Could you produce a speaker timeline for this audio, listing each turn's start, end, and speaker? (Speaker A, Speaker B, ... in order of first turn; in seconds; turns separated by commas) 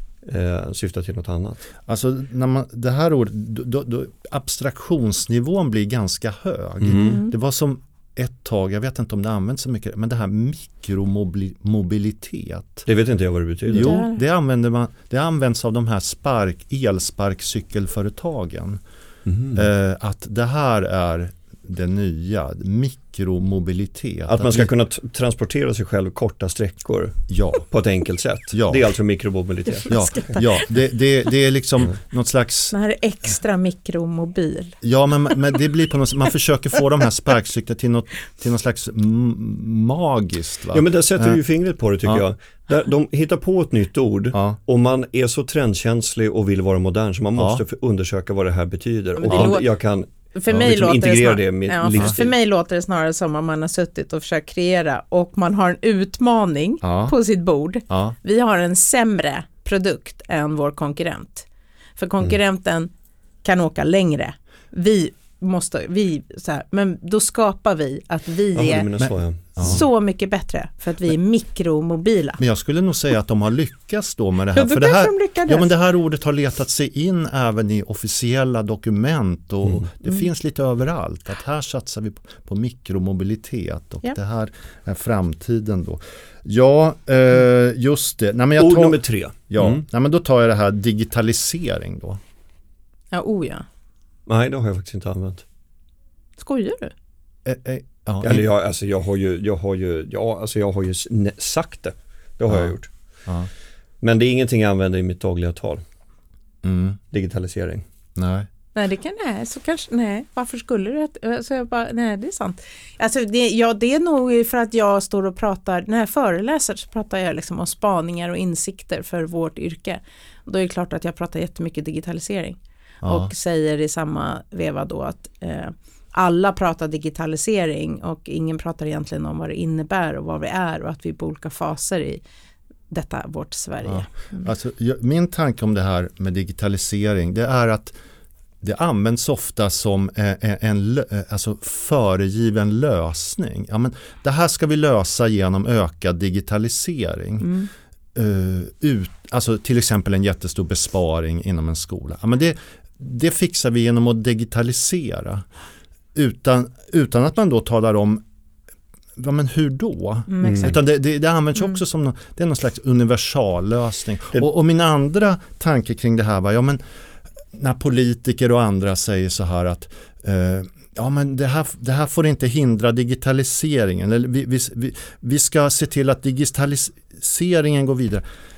Speaker A: 0.2-1.6, Speaker B: 1.9-12.8, Speaker A: 6.8-7.2, Speaker C: 7.0-7.3, Speaker A: 12.8-14.0, Speaker B: 13.7-18.8, Speaker C: 13.7-14.2, Speaker A: 19.2-19.6, Speaker B: 19.5-24.7, Speaker A: 24.3-30.0, Speaker B: 27.3-27.7, Speaker B: 28.5-28.9, Speaker C: 29.8-30.7, Speaker B: 29.9-32.8, Speaker C: 32.7-34.8, Speaker B: 34.8-41.4, Speaker A: 40.7-52.3, Speaker B: 44.3-44.6, Speaker B: 47.4-47.6, Speaker C: 49.2-49.7, Speaker C: 50.3-62.9, Speaker B: 56.8-57.1, Speaker B: 57.9-58.1, Speaker C: 63.4-68.9, Speaker A: 68.5-69.8, Speaker B: 69.0-69.8, Speaker C: 69.6-72.4, Speaker B: 72.4-92.2, Speaker C: 74.5-75.7, Speaker A: 88.6-89.8, Speaker C: 93.1-93.7, Speaker A: 94.3-95.4, Speaker C: 96.4-96.9, Speaker B: 97.4-98.5, Speaker A: 98.2-102.9, Speaker B: 102.5-102.7, Speaker A: 104.0-105.8, Speaker B: 106.6-107.0, Speaker A: 107.1-107.8, Speaker B: 108.1-108.5, Speaker C: 108.7-132.2, Speaker B: 123.0-123.3, Speaker C: 132.9-134.5, Speaker B: 133.8-137.9, Speaker B: 138.6-147.5, Speaker C: 147.4-147.7, Speaker B: 148.1-155.4, Speaker B: 156.1-158.2, Speaker B: 159.2-166.8, Speaker C: 160.3-160.8, Speaker A: 160.4-160.7, Speaker B: 167.5-178.2